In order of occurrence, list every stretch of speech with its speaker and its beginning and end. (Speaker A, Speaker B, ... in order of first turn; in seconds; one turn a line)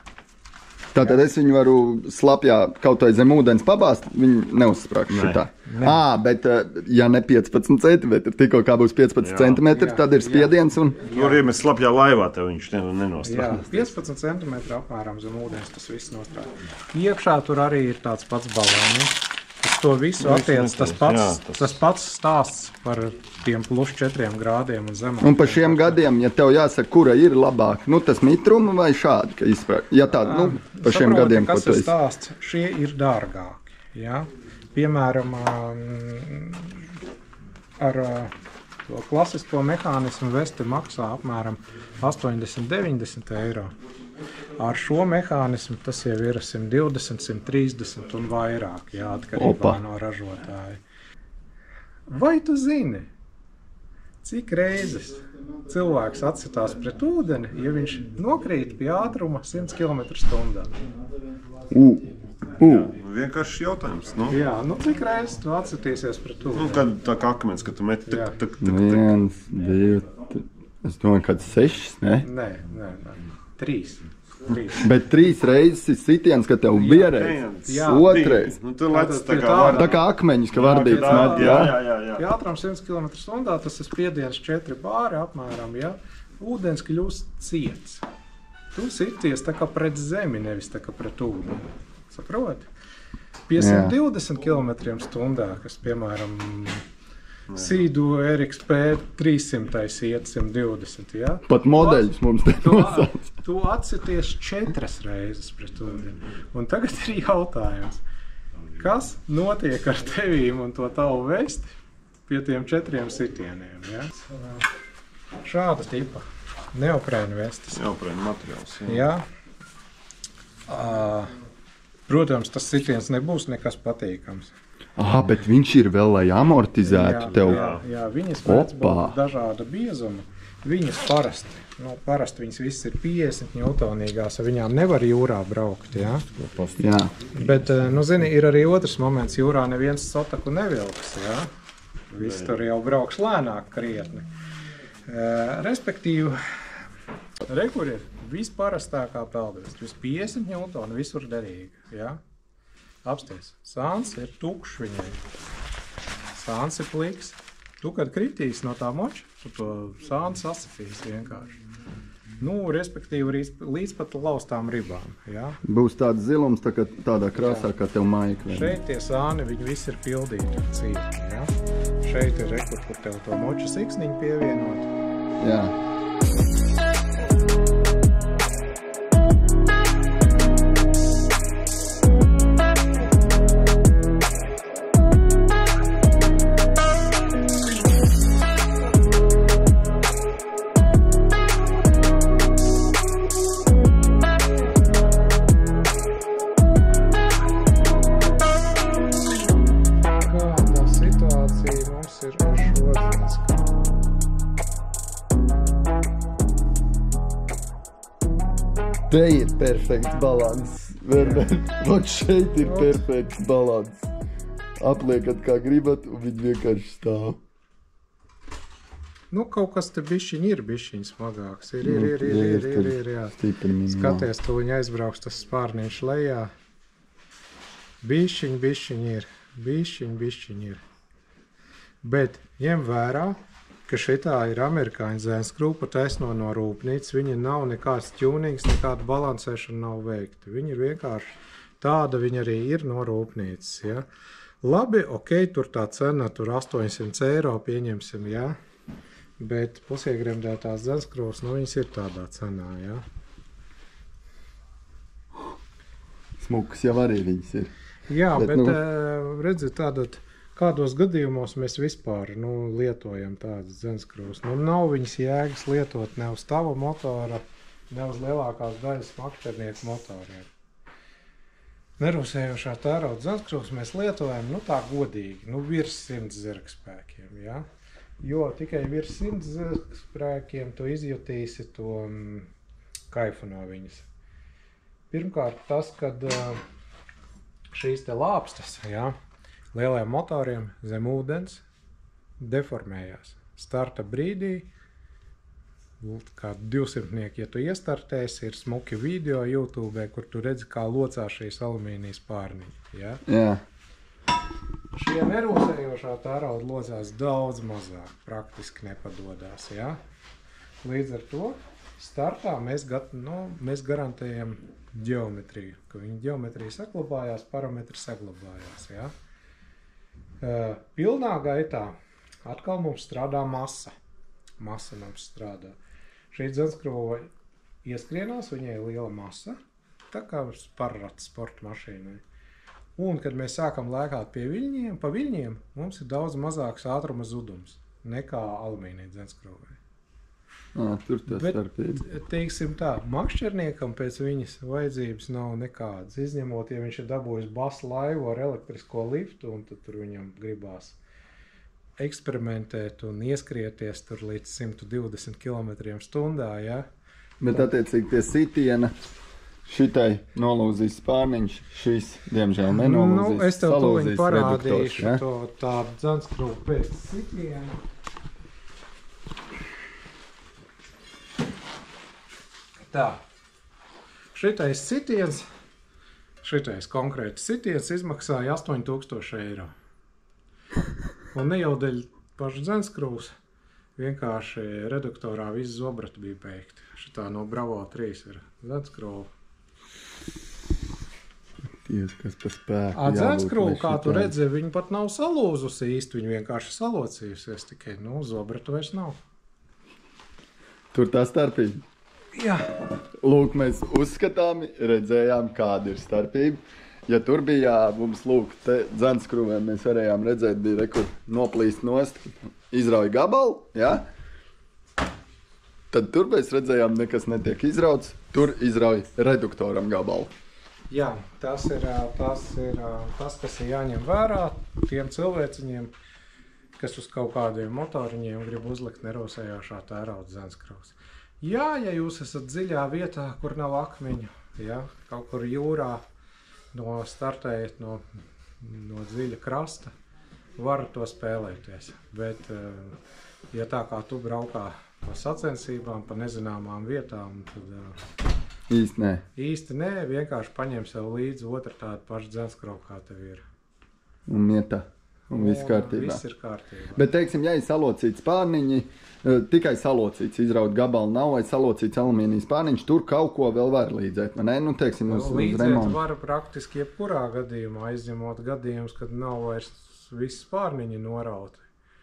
Speaker A: 0.9-11.0
Speaker B: 5.1-5.4
Speaker C: 5.7-6.0
Speaker B: 9.2-9.6
Speaker C: 9.7-11.4
Speaker B: 11.1-13.9
Speaker C: 13.2-26.0
Speaker B: 20.2-21.8
Speaker A: 25.2-31.9
Speaker C: 30.2-36.9
Speaker C: 37.8-38.3
Speaker C: 38.9-43.8
Speaker C: 44.6-50.8
Speaker A: 49.4-49.8
Speaker C: 52.1-53.1
Speaker C: 54.2-60.8
Speaker A: 61.7-63.0
Speaker B: 62.6-64.4
Speaker C: 64.3-66.9
Speaker B: 66.6-69.1
Speaker C: 68.1-68.4
Speaker A: 68.6-72.3
Speaker C: 72.2-74.9
Speaker A: 74.8-78.6
Speaker C: 76.8-77.1
Speaker B: 76.8-80.0
Speaker C: 77.7-78.2
Speaker C: 78.9-80.0
Speaker A: 79.7-81.8
Speaker B: 80.5-82.2
Speaker C: 80.6-88.0
Speaker C: 88.8-92.7
Speaker C: 93.5-96.8
Speaker A: 93.6-94.0
Speaker B: 97.5-97.8
Speaker C: 97.5-108.0
Speaker A: 101.5-103.3
Speaker C: 108.8-111.7
Speaker C: 112.3-114.7
Speaker C: 115.4-117.8
Speaker B: 117.7-119.1
Speaker C: 118.9-119.2
Speaker C: 120.7-121.3
Speaker C: 122.1-124.5
Speaker A: 125.0-127.7
Speaker C: 126.8-136.6
Speaker B: 127.4-127.8
Speaker A: 128.4-129.2
Speaker A: 136.8-137.1
Speaker C: 137.3-141.5
Speaker C: 142.1-144.3
Speaker B: 142.2-142.6
Speaker C: 145.1-146.4
Speaker C: 147.5-152.2
Speaker C: 153.1-155.2
Speaker C: 156.3-161.6
Speaker C: 162.4-165.6
Speaker A: 165.6-168.8
Speaker C: 167.4-167.7
Speaker C: 168.5-171.5
Speaker C: 172.0-174.9
Speaker A: 175.4-175.7
Speaker C: 200.2-203.7
Speaker A: 209.1-214.1
Speaker C: 211.1-211.5
Speaker C: 212.6-213.0
Speaker A: 214.8-217.4
Speaker C: 219.3-223.4
Speaker A: 221.8-224.3
Speaker C: 223.9-226.5
Speaker C: 228.0-230.8
Speaker C: 232.0-244.1
Speaker C: 244.6-248.6
Speaker C: 249.4-253.1
Speaker A: 256.4-257.7
Speaker C: 258.1-270.5
Speaker A: 258.3-258.8
Speaker C: 272.0-277.6
Speaker C: 278.2-282.5
Speaker C: 283.1-284.1
Speaker C: 285.1-286.6
Speaker C: 287.7-289.1
Speaker C: 289.7-291.6
Speaker C: 292.4-294.7
Speaker C: 296.0-303.2
Speaker A: 303.3-303.6
Speaker C: 304.9-310.0
Speaker C: 310.8-319.1
Speaker C: 320.4-323.9
Speaker C: 324.6-325.8
Speaker C: 326.3-327.3
Speaker C: 327.8-329.6
Speaker C: 330.1-332.2
Speaker C: 333.0-339.8
Speaker A: 340.8-342.0
Speaker C: 341.3-351.0
Speaker C: 352.0-356.9
Speaker A: 357.4-358.9
Speaker A: 359.7-365.2
Speaker C: 362.7-367.8
Speaker C: 372.9-373.2
Speaker C: 374.3-375.5
Speaker C: 376.4-379.7
Speaker C: 381.3-383.3
Speaker C: 384.0-389.3
Speaker A: 391.8-394.3
Speaker C: 392.9-399.2
Speaker A: 400.9-401.8
Speaker C: 402.4-402.7
Speaker A: 403.2-414.1
Speaker A: 415.9-420.3
Speaker C: 420.9-425.9
Speaker C: 426.8-436.0
Speaker C: 436.7-438.0
Speaker C: 438.6-439.9
Speaker C: 440.6-443.0
Speaker C: 443.5-448.0
Speaker A: 448.7-449.2
Speaker C: 449.4-453.4
Speaker A: 454.3-456.2
Speaker C: 455.3-457.1
Speaker A: 456.9-466.0
Speaker C: 465.1-471.6